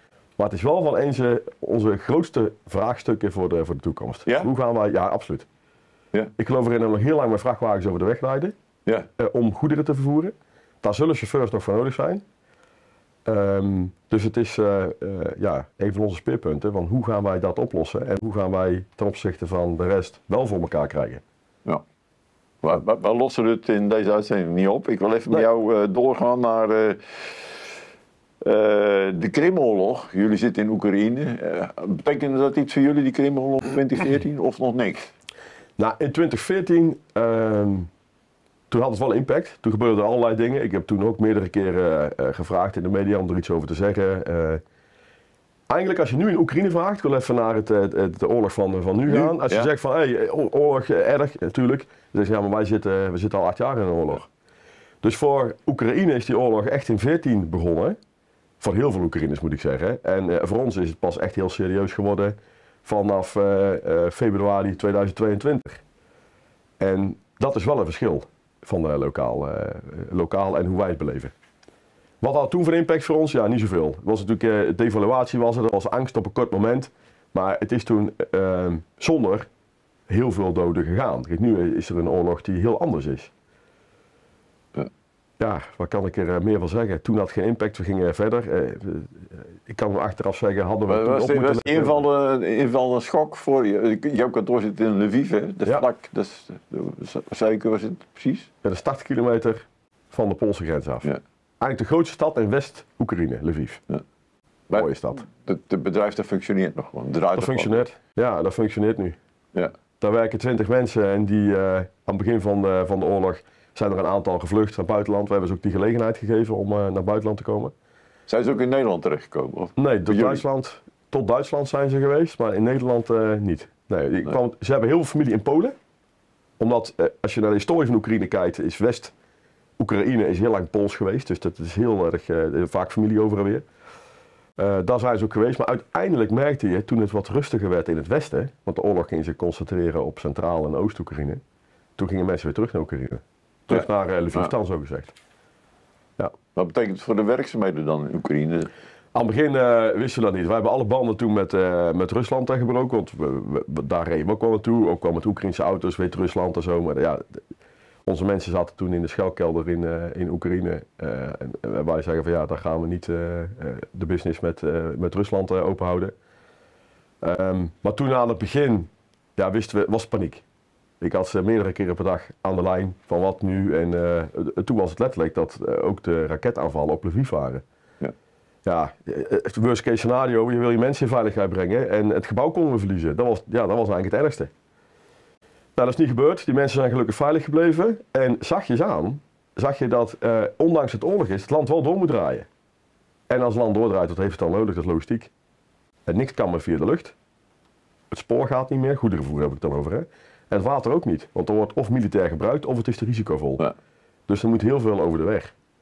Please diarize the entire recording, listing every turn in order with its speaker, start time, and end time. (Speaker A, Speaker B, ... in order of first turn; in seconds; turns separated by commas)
Speaker A: 0.4-5.5, Speaker A: 6.4-8.5, Speaker A: 9.2-12.2, Speaker A: 13.2-21.2, Speaker B: 22.6-27.5, Speaker B: 28.4-35.1, Speaker A: 35.8-37.9, Speaker A: 38.7-44.6, Speaker A: 45.7-54.3, Speaker B: 49.1-49.7, Speaker A: 55.0-58.0, Speaker A: 58.6-65.8, Speaker A: 66.8-71.3, Speaker A: 72.2-79.5, Speaker A: 80.1-83.3, Speaker A: 85.4-92.0, Speaker B: 90.9-98.5, Speaker A: 98.6-101.0, Speaker A: 101.6-103.8, Speaker B: 104.7-107.8, Speaker A: 104.7-105.2, Speaker A: 107.3-109.2, Speaker A: 110.0-117.7, Speaker B: 118.3-120.4, Speaker A: 119.8-125.7, Speaker A: 126.6-129.1, Speaker A: 129.8-133.6, Speaker A: 134.6-141.4, Speaker A: 142.0-145.1, Speaker B: 146.5-148.7, Speaker A: 149.1-157.4, Speaker A: 158.1-166.1, Speaker A: 167.2-170.4, Speaker A: 171.0-177.6, Speaker A: 178.6-184.5, Speaker A: 185.8-192.5, Speaker A: 193.3-195.3, Speaker A: 196.1-197.1, Speaker A: 198.1-203.6, Speaker A: 204.3-205.5